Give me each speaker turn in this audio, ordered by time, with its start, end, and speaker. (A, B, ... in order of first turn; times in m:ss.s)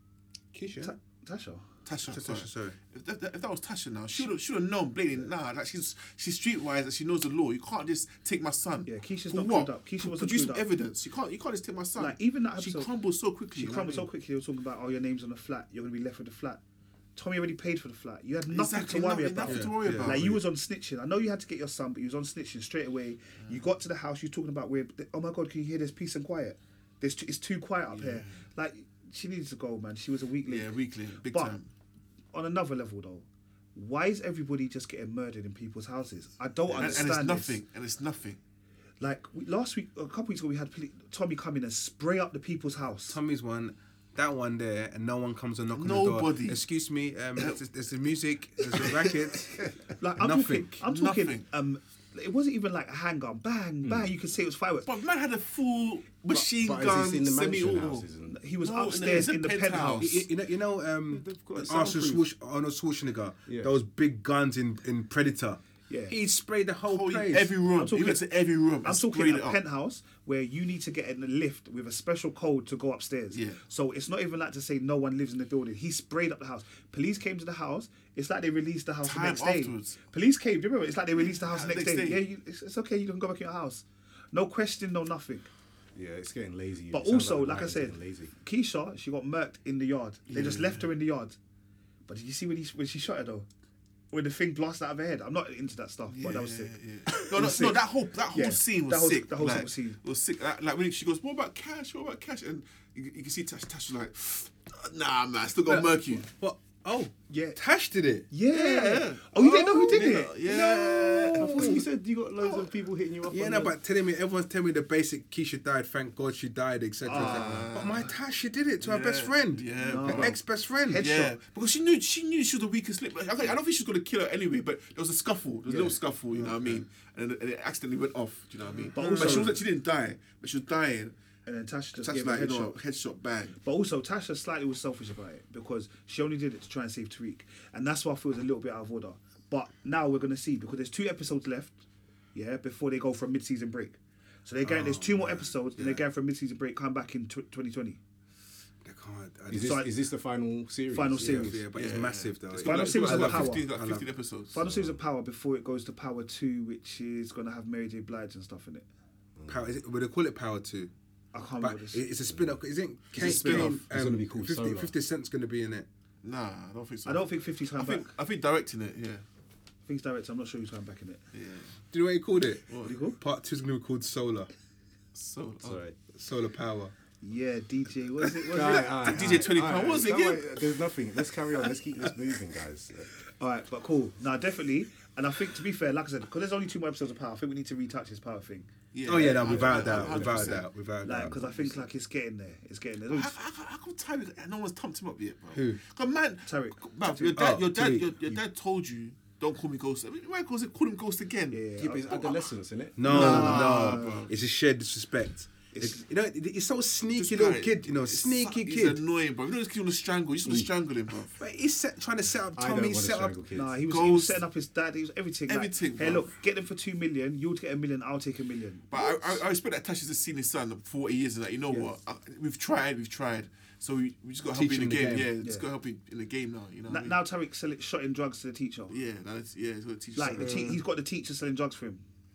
0:00.5-0:00.9 A
0:00.8-0:01.6 B
0:01.8-0:14.1 C
0:02.1-0:02.8 A
0:08.9-0:10.6 B
0:12.0-0:12.9 B
0:13.5-0:16.6 B
0:17.2-0:31.6 B
0:18.5-0:20.4 C
0:19.5-0:20.3 A
0:27.9-0:28.4 C
0:30.4-0:31.7 C
0:32.3-0:37.6 B
0:36.7-0:38.4 C
0:39.0-0:43.2 B
0:43.1-0:50.7 A
0:45.7-0:46.6 C
0:47.4-0:47.6 C
0:48.7-0:49.1 C
0:50.0-0:54.9 B
0:50.8-0:51.4 C
0:53.8-0:54.1 D
0:54.9-0:58.1 C
0:56.3-0:58.4 D
0:58.3-1:00.2 B
0:58.6-1:00.2 C
1:00.0-1:07.5 A
1:01.1-1:02.2 D
1:01.5-1:02.2 C
1:03.5-1:03.7 D
1:05.9-1:06.2 B
1:06.8-1:09.6 C
1:07.7-1:08.2 B
1:08.8-1:25.5 B
1:13.3-1:13.6 C
1:19.0-1:20.0 C
1:21.2-1:22.2 C
1:25.9-1:28.3 D
1:26.9-1:31.4 B
1:30.3-1:30.9 C
1:32.1-1:33.5 B
1:34.1-1:40.0 B
1:36.1-1:46.3 C
1:45.7-1:48.3 A
1:47.3-1:47.6 B
1:48.3-1:50.4 B
1:48.5-1:51.8 C
1:49.8-1:51.8 A
1:51.3-1:53.8 D
1:53.3-2:01.3 A
1:57.1-1:57.7 B
1:57.1-1:58.1 C
1:58.8-2:00.4 C
1:59.8-2:01.2 B
2:00.9-2:11.1 C
2:05.7-2:06.0 B
2:06.4-2:06.8 A
2:08.9-2:09.6 B
2:09.1-2:09.4 A
2:11.4-2:12.8 B
2:12.0-2:13.6 C
2:13.6-2:28.0 B
2:24.6-2:26.0 A
2:28.8-2:29.8 A
2:29.5-2:31.6 D
2:29.5-2:29.9 B
2:30.9-2:31.6 B
2:31.2-2:34.1 A
2:31.7-2:34.5 C
2:32.6-2:33.7 B
2:34.5-2:38.9 B
2:34.6-2:35.0 D
2:39.4-2:39.7 D
2:39.5-2:40.9 A
2:41.3-2:42.0 B
2:41.6-2:45.9 A
2:42.3-2:42.6 D
2:43.1-2:44.9 D
2:43.1-2:43.7 C
2:46.2-2:49.2 C
2:47.0-2:48.1 B
2:49.8-2:51.2 B
2:51.3-2:51.7 C
2:51.9-2:54.5 A
2:52.7-2:52.9 C
2:52.8-2:53.2 B
2:55.1-2:55.8 C
2:55.6-2:56.0 D
2:56.1-2:56.9 A
2:57.2-2:59.5 B
2:58.5-3:00.6 C
2:58.5-3:03.1 D
3:03.4-3:08.7 B
3:08.9-3:10.7 C
3:09.0-3:11.4 A
3:09.3-3:11.8 D
3:11.0-3:13.3 B
3:13.1-3:21.6 C
3:15.5-3:15.8 A
3:16.5-3:17.4 B
3:17.4-3:18.4 A
3:21.5-3:22.4 B
3:21.8-3:23.6 D
3:23.0-3:29.0 A
3:23.0-3:24.3 B
3:23.0-3:24.3 C
3:25.7-3:26.0 B
3:27.1-3:31.4 C
3:31.4-3:33.4 A
3:32.5-3:33.8 D
3:33.5-3:39.4 B
3:33.9-3:34.4 C
3:35.5-3:36.3 C
3:38.9-3:47.2 C
3:44.5-3:45.3 A
3:45.4-3:45.7 B
3:46.9-3:49.0 B
3:48.9-3:50.8 C
3:50.2-3:52.0 B
3:50.4-3:50.7 A